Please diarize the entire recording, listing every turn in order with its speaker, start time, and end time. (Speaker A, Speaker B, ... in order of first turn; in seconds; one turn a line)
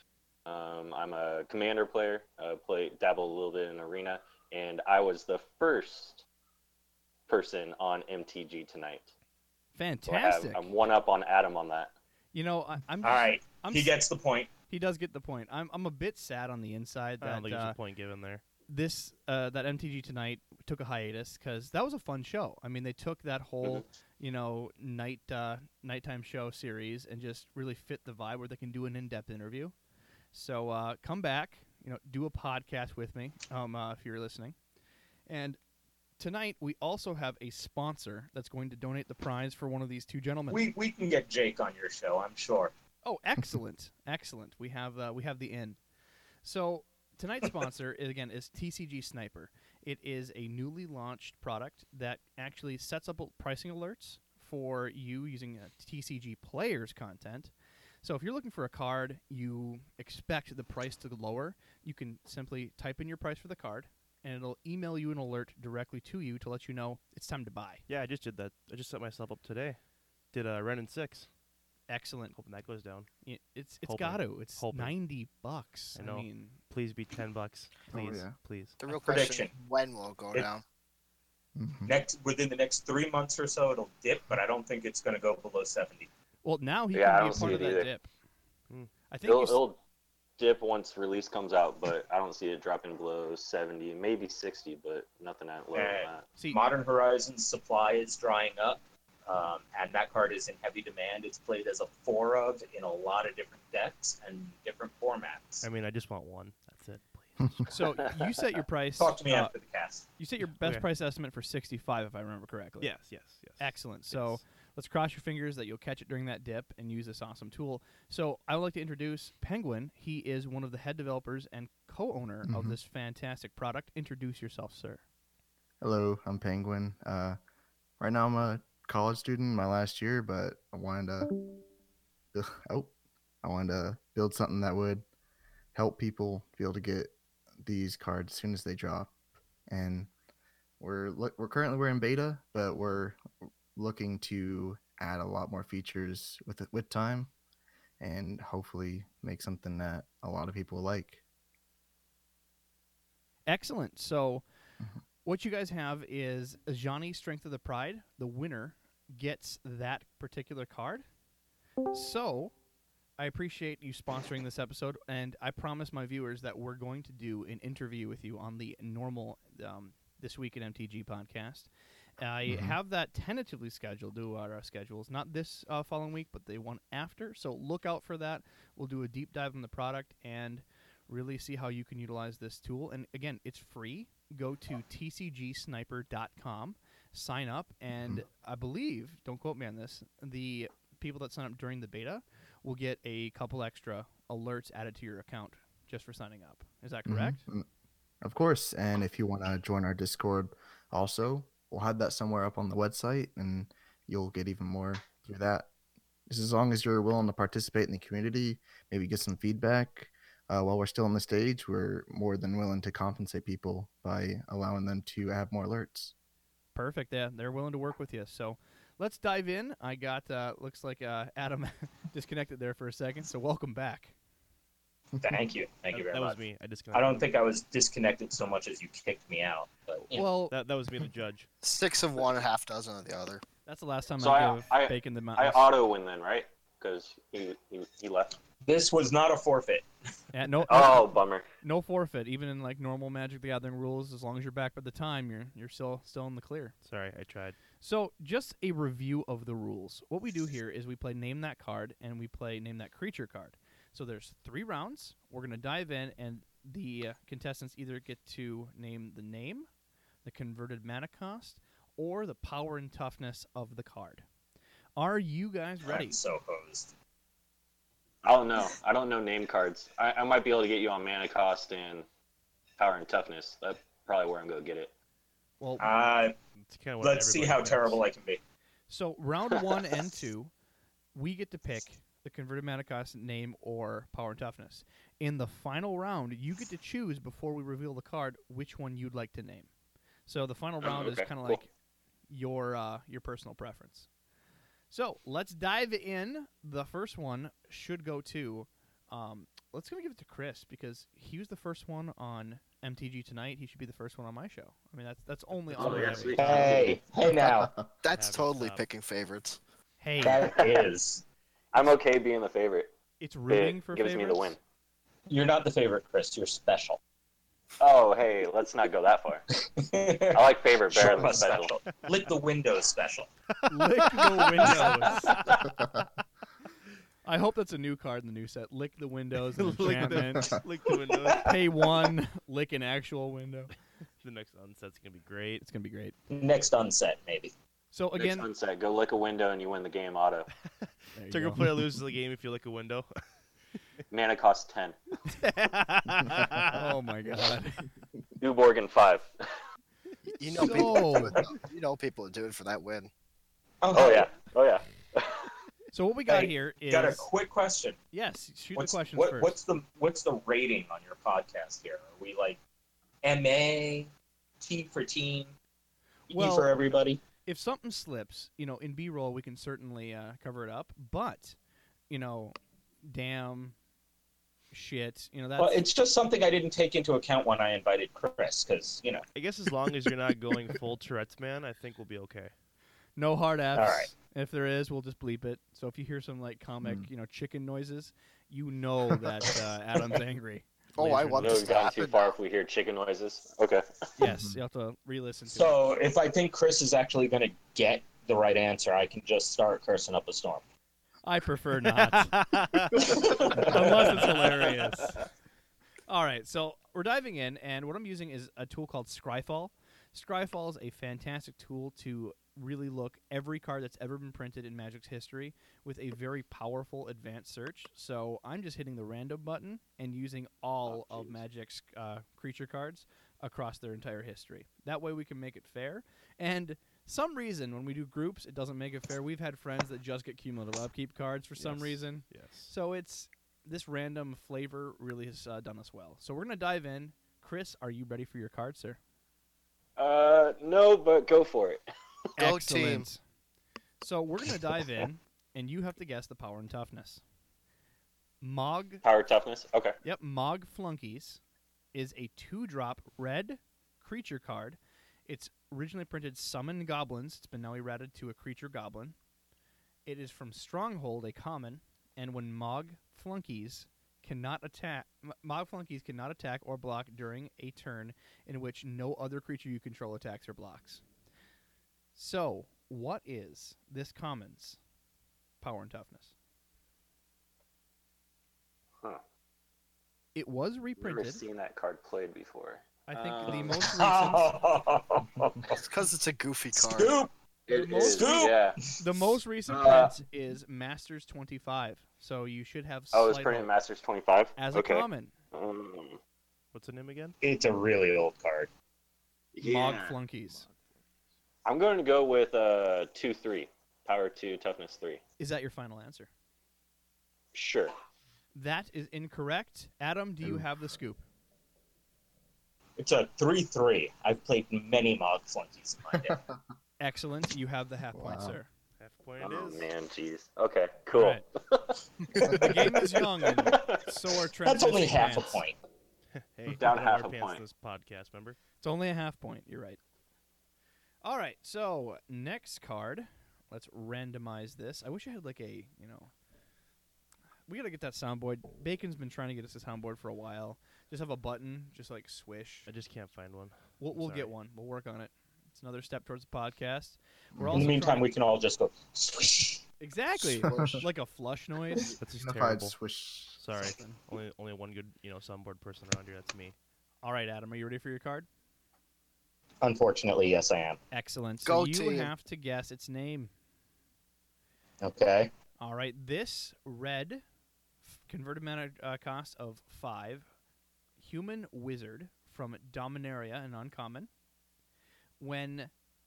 Speaker A: 0.5-6.2
Speaker A: 7.3-9.1
Speaker B: 9.7-10.7
Speaker A: 10.1-11.9
Speaker B: 12.3-13.9
Speaker C: 13.0-14.5
Speaker B: 14.7-17.8
Speaker D: 17.2-18.4
Speaker B: 18.7-29.7
Speaker B: 30.3-34.5
Speaker B: 35.3-35.6
Speaker B: 36.2-40.6
Speaker C: 40.5-42.7
Speaker B: 43.0-45.8
Speaker B: 46.4-67.8
Speaker D: 67.9-69.8
Speaker D: 70.3-71.3
Speaker B: 71.9-72.4
Speaker D: 72.3-73.1
Speaker B: 73.2-76.6
Speaker D: 73.8-75.0
Speaker D: 75.9-78.8
Speaker E: 77.9-78.3
Speaker F: 78.8-80.6
Speaker C: 78.9-79.5
Speaker E: 81.5-81.9
Speaker C: 81.9-86.1
Speaker B: 86.4-88.1
Speaker A: 86.9-87.9
Speaker B: 89.1-89.6
Speaker A: 89.2-89.8
Speaker A: 90.4-96.2
Speaker C: 95.7-105.7
Speaker B: 96.4-96.6
Speaker D: 105.6-108.0
Speaker B: 107.7-109.5
Speaker C: 109.0-110.0
Speaker B: 110.2-113.0
Speaker D: 112.8-114.4
Speaker B: 113.6-125.0
Speaker E: 122.5-122.8
Speaker E: 125.8-127.4
Speaker E: 128.0-131.3
Speaker E: 132.3-135.0
Speaker E: 135.7-139.1
Speaker E: 139.7-140.1
Speaker E: 140.8-143.2
Speaker E: 143.7-147.3
Speaker E: 148.0-151.2
Speaker B: 153.4-154.4
Speaker B: 155.2-161.0
Speaker B: 161.9-162.5
Speaker B: 163.2-197.4
Speaker E: 172.5-172.8
Speaker E: 187.9-188.2
Speaker E: 197.0-197.7
Speaker E: 198.2-205.7
Speaker E: 206.3-216.1
Speaker B: 216.7-224.1
Speaker C: 225.2-230.3
Speaker D: 225.9-227.3
Speaker B: 230.1-230.6
Speaker D: 230.5-231.5
Speaker F: 231.6-233.4
Speaker B: 233.6-235.7
Speaker A: 234.2-238.4
Speaker C: 238.6-239.8
Speaker B: 240.3-246.7
Speaker A: 240.7-241.4
Speaker D: 246.8-247.6
Speaker B: 247.8-259.7
Speaker B: 260.2-264.2
Speaker B: 264.9-266.1
Speaker C: 265.9-266.9
Speaker A: 268.2-272.1
Speaker A: 272.8-274.9
Speaker B: 275.6-275.9
Speaker C: 275.8-276.3
Speaker D: 276.6-278.0
Speaker C: 277.0-278.4
Speaker B: 278.9-280.5
Speaker B: 281.1-289.7
Speaker B: 290.3-291.7
Speaker A: 290.8-291.6
Speaker B: 292.3-294.1
Speaker B: 294.9-307.0
Speaker D: 305.7-306.4
Speaker A: 305.8-307.0
Speaker C: 305.9-307.8
Speaker E: 307.3-307.8
Speaker F: 308.0-309.6
Speaker D: 308.1-308.9
Speaker B: 310.0-310.5
Speaker C: 310.2-311.2
Speaker A: 310.3-310.9
Speaker A: 311.7-312.9
Speaker B: 313.2-314.5
Speaker A: 313.5-314.6
Speaker C: 315.3-317.0
Speaker A: 317.8-319.4
Speaker C: 319.8-323.3
Speaker A: 320.3-321.7
Speaker B: 323.7-325.4
Speaker D: 324.1-325.5
Speaker B: 327.2-330.5
Speaker D: 329.5-331.6
Speaker B: 331.4-333.7
Speaker D: 334.2-335.6
Speaker B: 335.6-336.1
Speaker C: 336.3-337.5
Speaker B: 337.9-338.5
Speaker A: 338.2-340.5
Speaker B: 341.1-341.8
Speaker D: 341.3-343.1
Speaker A: 344.1-344.9
Speaker B: 345.3-347.9
Speaker D: 346.4-346.8
Speaker A: 348.4-349.3
Speaker F: 350.4-353.1
Speaker B: 350.6-351.4
Speaker C: 353.8-354.3
Speaker A: 353.9-355.5
Speaker B: 355.9-357.3
Speaker C: 356.3-358.0
Speaker B: 358.1-359.6
Speaker C: 358.8-362.6
Speaker C: 363.2-364.1
Speaker C: 364.6-365.5
Speaker C: 366.3-367.2
Speaker B: 366.3-366.8
Speaker B: 367.4-371.6
Speaker B: 372.1-372.5
Speaker B: 373.0-373.7
Speaker B: 374.7-375.8
Speaker C: 375.6-379.2
Speaker D: 379.3-382.5
Speaker B: 383.2-391.7
Speaker C: 383.7-384.1
Speaker F: 390.9-392.3
Speaker A: 391.4-393.8
Speaker B: 394.2-395.8
Speaker E: 394.2-394.6
Speaker C: 395.5-400.6
Speaker B: 401.2-405.2
Speaker D: 401.9-402.9
Speaker C: 403.0-404.2
Speaker B: 406.1-439.0
Speaker A: 420.9-421.3
Speaker D: 431.6-432.7
Speaker A: 440.0-441.8
Speaker B: 442.4-443.2
Speaker F: 442.4-443.1
Speaker B: 444.0-447.2
Speaker B: 448.4-449.0
Speaker A: 449.0-450.0
Speaker B: 450.0-451.4
Speaker B: 451.9-459.1
Speaker B: 460.1-471.0
Speaker B: 472.1-474.8
Speaker B: 475.6-476.3
Speaker B: 480.3-481.4
Speaker A: 481.0-483.9
Speaker B: 483.1-484.5
Speaker C: 483.5-485.7
Speaker F: 485.8-487.2
Speaker C: 486.8-487.3
Speaker A: 487.7-488.8
Speaker B: 487.7-493.7
Speaker C: 488.0-488.6
Speaker A: 489.7-490.1
Speaker A: 493.1-496.2
Speaker B: 494.6-495.3
Speaker D: 496.7-497.4
Speaker C: 497.4-498.7
Speaker A: 499.5-500.1
Speaker B: 499.6-500.6
Speaker D: 500.5-500.8
Speaker A: 501.6-505.2
Speaker B: 505.4-506.3
Speaker A: 507.5-507.9
Speaker B: 508.5-511.2
Speaker E: 510.4-510.7
Speaker C: 513.0-516.4
Speaker E: 516.1-516.6
Speaker B: 517.0-518.7
Speaker E: 518.1-518.6
Speaker D: 519.0-519.9
Speaker A: 519.4-521.9
Speaker B: 521.1-521.4
Speaker B: 522.4-525.6
Speaker A: 523.7-524.0
Speaker C: 524.6-525.8
Speaker D: 526.3-528.6
Speaker A: 526.7-527.6
Speaker B: 528.8-530.0
Speaker B: 531.2-536.3
Speaker B: 537.7-542.9
Speaker D: 542.9-544.5
Speaker B: 544.0-548.3
Speaker E: 547.5-548.0
Speaker C: 547.7-549.8
Speaker B: 550.0-552.1
Speaker E: 550.4-551.0
Speaker D: 552.2-552.9
Speaker E: 552.3-553.6
Speaker D: 553.5-556.7
Speaker B: 557.2-558.5
Speaker C: 559.8-561.0
Speaker B: 561.1-563.5
Speaker F: 561.6-562.3
Speaker C: 565.0-565.5
Speaker B: 565.8-567.4
Speaker B: 568.0-570.5
Speaker B: 571.2-574.3
Speaker B: 575.4-575.9